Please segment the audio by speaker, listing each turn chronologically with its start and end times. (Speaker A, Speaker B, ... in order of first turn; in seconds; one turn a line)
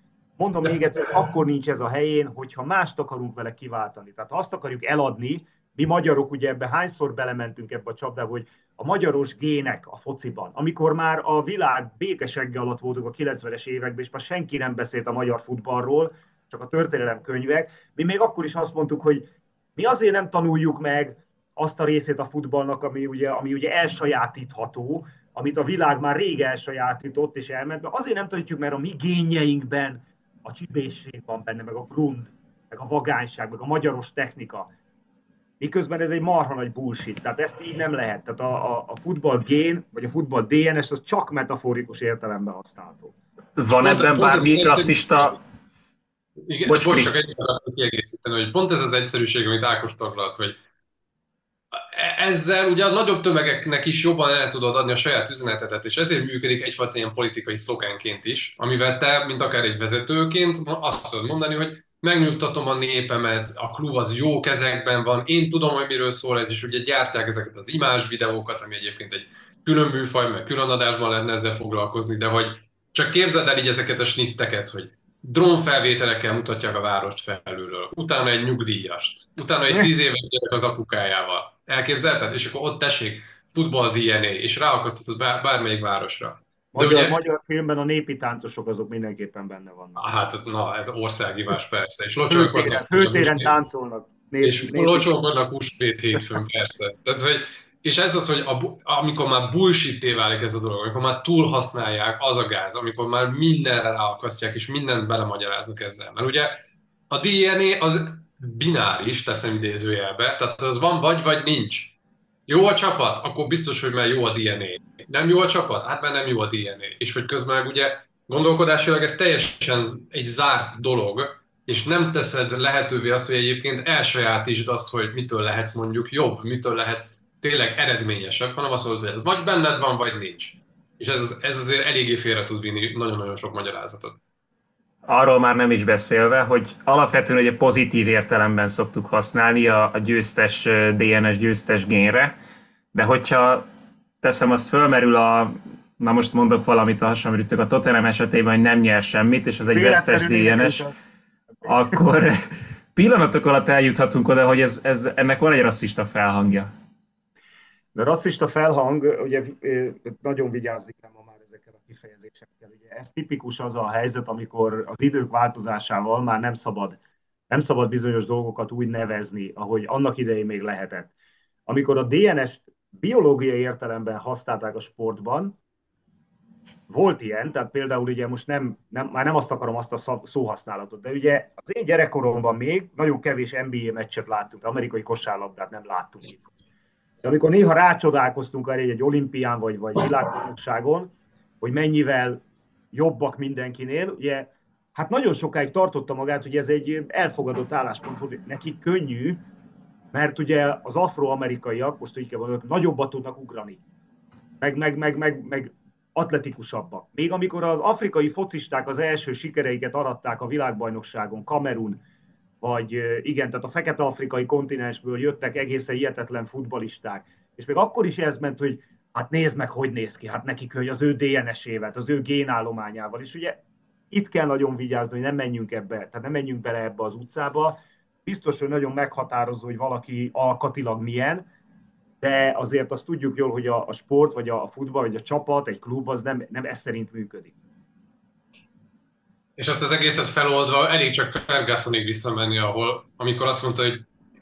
Speaker A: 0.4-34.7
Speaker A: 35.6-43.1
Speaker B: 43.6-45.4
Speaker C: 43.7-45.4
Speaker C: 46.5-50.6
Speaker B: 46.6-47.1
Speaker C: 51.7-87.2
Speaker A: 86.7-90.0
Speaker C: 90.0-93.5
Speaker A: 92.3-95.1
Speaker C: 94.4-106.5
Speaker C: 107.1-112.0
Speaker C: 112.5-134.2
Speaker B: 135.1-142.3
Speaker B: 142.9-143.7
Speaker B: 144.2-150.8
Speaker A: 149.7-150.9
Speaker B: 151.7-152.4
Speaker B: 152.9-156.7
Speaker A: 157.9-167.0
Speaker A: 167.5-171.1
Speaker A: 171.7-175.6
Speaker A: 176.9-186.5
Speaker A: 187.2-192.4
Speaker A: 192.9-199.4
Speaker A: 200.1-203.8
Speaker A: 204.6-212.0
Speaker A: 212.6-231.5
Speaker A: 232.2-237.5
Speaker C: 239.6-244.0